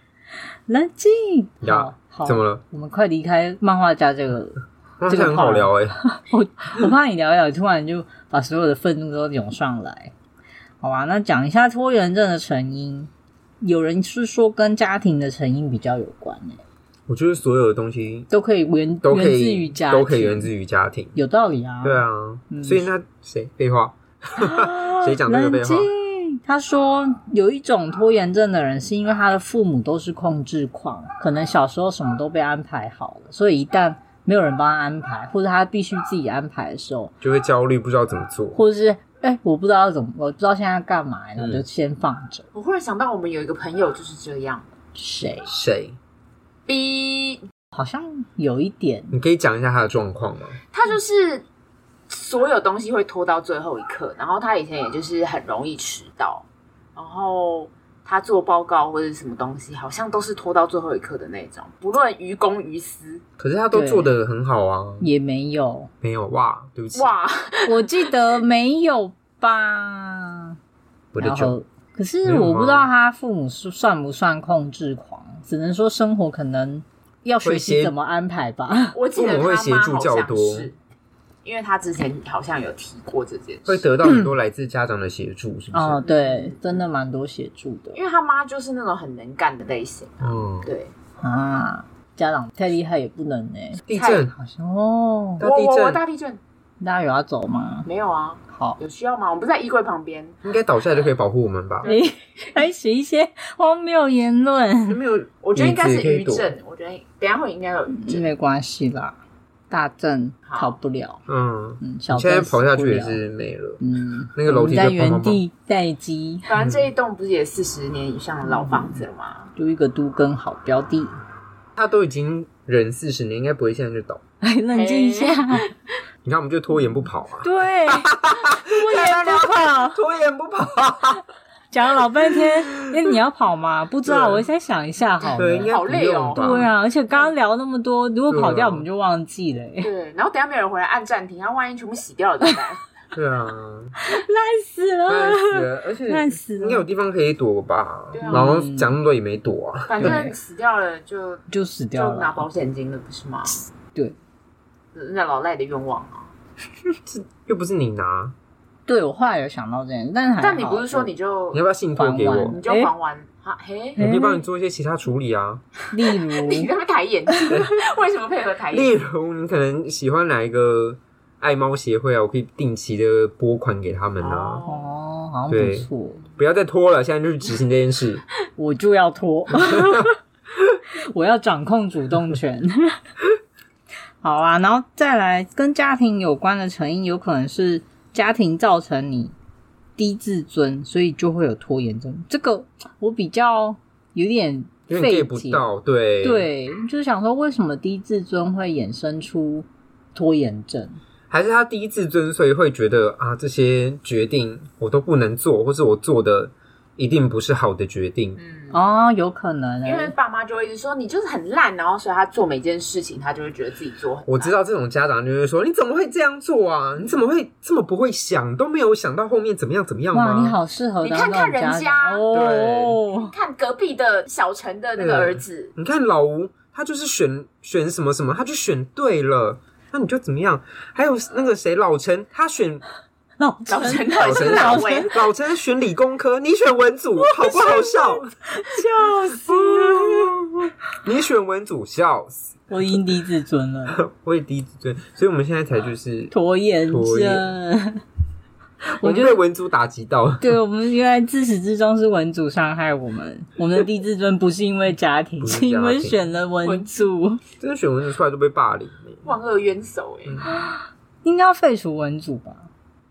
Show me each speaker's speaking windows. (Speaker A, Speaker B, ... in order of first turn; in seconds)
Speaker A: 0.7-10.1, 10.8-13.1, 13.6-16.6, 18.3-20.5, 21.1-22.9, 24.4-37.1, 38.5-42.5, 45.0-45.5, 47.7-49.1, 63.7-64.1, 65.0-65.9, 67.7-70.6, 71.2-79.0, 84.0-84.3, 85.7-88.0, 91.2-93.8, 94.3-95.5, 96.8-97.9, 98.5-98.8, 101.8-105.0, 107.9-109.2, 109.7-111.2, 111.8-113.2, 113.8-116.5, 119.6-121.2, 124.4-125.7, 127.4-130.0, 131.7-135.8, 136.3-139.9, 144.0-146.9, 148.3-148.9, 150.0-150.3, 151.5-152.5, 158.9-161.1, 162.0-162.9, 164.0-164.4, 165.9-166.7, 174.7-176.2, 178.6-180.2, 181.1-183.0, 184.2-189.3, 190.0-195.7, 196.2-201.0, 208.7-210.1, 220.1-223.3, 233.4-235.1, 237.2-240.3, 242.7-244.0, 246.3-248.0, 249.0-249.4, 250.4-257.4, 260.5-262.7
Speaker B: 1.6-2.6, 5.0-6.0, 17.1-18.3, 19.0-21.2, 21.8-25.9, 37.2-38.6, 41.4-41.6, 45.5-46.0, 49.1-50.6, 63.4-65.1, 66.0-67.1, 71.1-71.5, 72.2-72.9, 77.4-77.9, 79.2-80.7, 83.7-86.0, 90.2-90.7, 93.9-94.3, 95.4-96.0, 100.4-101.9, 104.9-106.5, 111.3-113.8, 114.3-115.4, 121.8-124.2, 126.2-131.2, 132.3-133.2, 134.1-134.5, 135.4-136.7, 138.3-138.8, 143.1-143.9, 145.1-150.2, 157.1-158.3, 161.5-162.6, 164.0-165.6, 168.7-174.6, 175.5-178.2, 179.6-180.1, 194.9-196.5, 201.3-208.4, 214.3-220.6, 222.3-223.0, 225.0-232.8, 234.2-238.3, 239.4-242.6, 243.9-246.3, 246.9-247.5, 249.0-250.6, 255.4-256.2, 257.6-259.3
Speaker C: 42.5-44.7, 46.7-47.4, 50.7-51.5, 52.1-56.5, 57.0-63.2, 67.0-68.1, 78.9-80.8, 81.4-83.9, 86.0-86.8, 87.9-90.9, 93.9-94.3, 95.4-96.4, 97.8-100.4, 101.8-102.1, 105.4-108.3, 110.5-110.8, 116.5-119.5, 124.7-125.7, 135.2-136.7, 139.8-142.8, 148.1-148.6, 149.9-153.7, 154.9-156.3, 160.4-161.6, 162.2-164.0, 165.8-169.0, 174.2-174.9, 208.4-208.8, 209.8-214.6, 221.0-222.2, 223.1-225.7, 233.7-235.2, 259.2-260.5